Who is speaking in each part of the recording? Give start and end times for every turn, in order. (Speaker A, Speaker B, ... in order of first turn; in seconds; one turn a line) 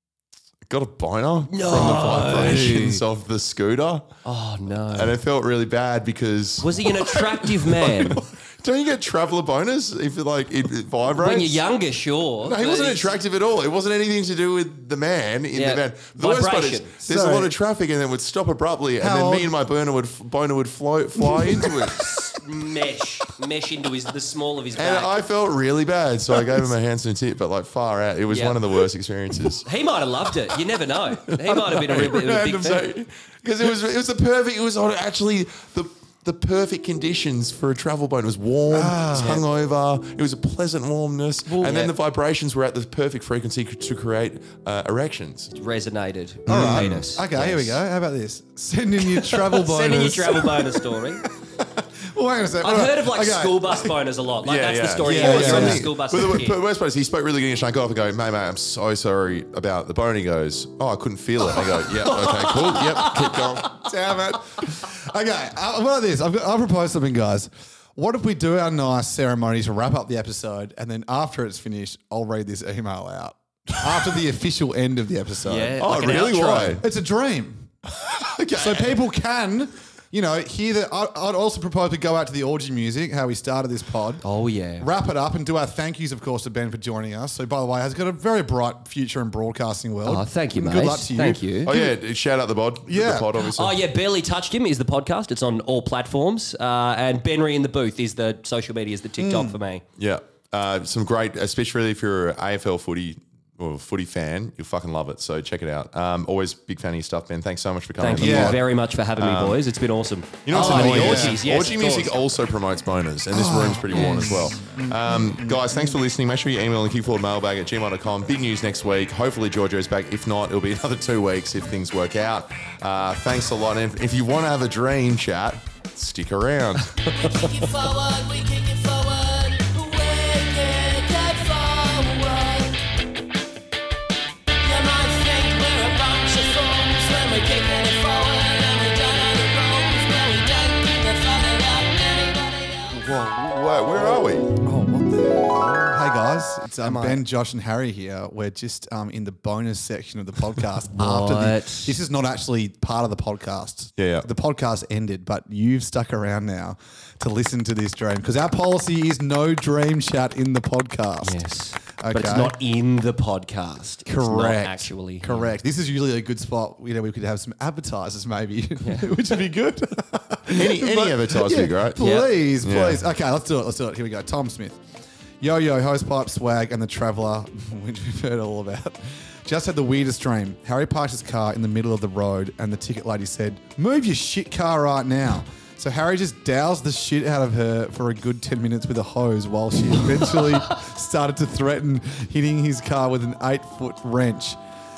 Speaker A: 0.7-4.1
Speaker B: 1.5-3.0
Speaker B: 4.2-5.2
Speaker A: 4.9-11.6
Speaker B: 6.6-8.2
Speaker B: 11.1-13.1
Speaker A: 12.4-22.1
Speaker B: 15.5-16.9
Speaker C: 17.1-17.5
Speaker C: 19.0-19.5
Speaker C: 21.2-21.7
Speaker B: 22.0-25.1
Speaker A: 24.8-29.7
Speaker B: 28.3-28.6
Speaker B: 29.6-32.8
Speaker A: 31.4-45.5
Speaker C: 38.7-39.4
Speaker B: 41.6-41.9
Speaker B: 45.5-47.8
Speaker C: 46.5-53.9
Speaker A: 46.5-47.0
Speaker B: 49.3-51.2
Speaker B: 52.6-56.6
Speaker A: 54.4-63.9
Speaker C: 55.0-55.9
Speaker C: 61.7-75.8
Speaker B: 75.5-76.8
Speaker A: 75.8-76.8
Speaker C: 76.4-77.7
Speaker A: 78.0-79.0
Speaker C: 78.5-84.2
Speaker B: 84.2-84.9
Speaker C: 84.8-91.9
Speaker B: 90.0-91.7
Speaker A: 91.7-93.8
Speaker C: 92.9-93.3
Speaker B: 93.5-99.8
Speaker C: 99.2-99.6
Speaker A: 100.0-108.6
Speaker B: 108.0-112.1
Speaker C: 108.2-108.6
Speaker A: 109.2-109.6
Speaker A: 110.4-127.1
Speaker C: 110.5-111.4
Speaker C: 113.3-116.0
Speaker B: 114.0-114.3
Speaker B: 127.0-127.9
Speaker D: 128.1-132.5
Speaker D: 134.7-136.9
Speaker D: 137.9-142.8
Speaker A: 142.9-144.5
Speaker C: 144.6-161.4
Speaker B: 146.8-147.2
Speaker B: 151.0-152.0
Speaker A: 154.0-154.2
Speaker B: 161.2-165.5
Speaker C: 162.0-162.5
Speaker C: 164.1-174.8
Speaker B: 168.8-169.1
Speaker A: 170.5-173.0
Speaker B: 172.0-172.3
Speaker C: 175.4-194.6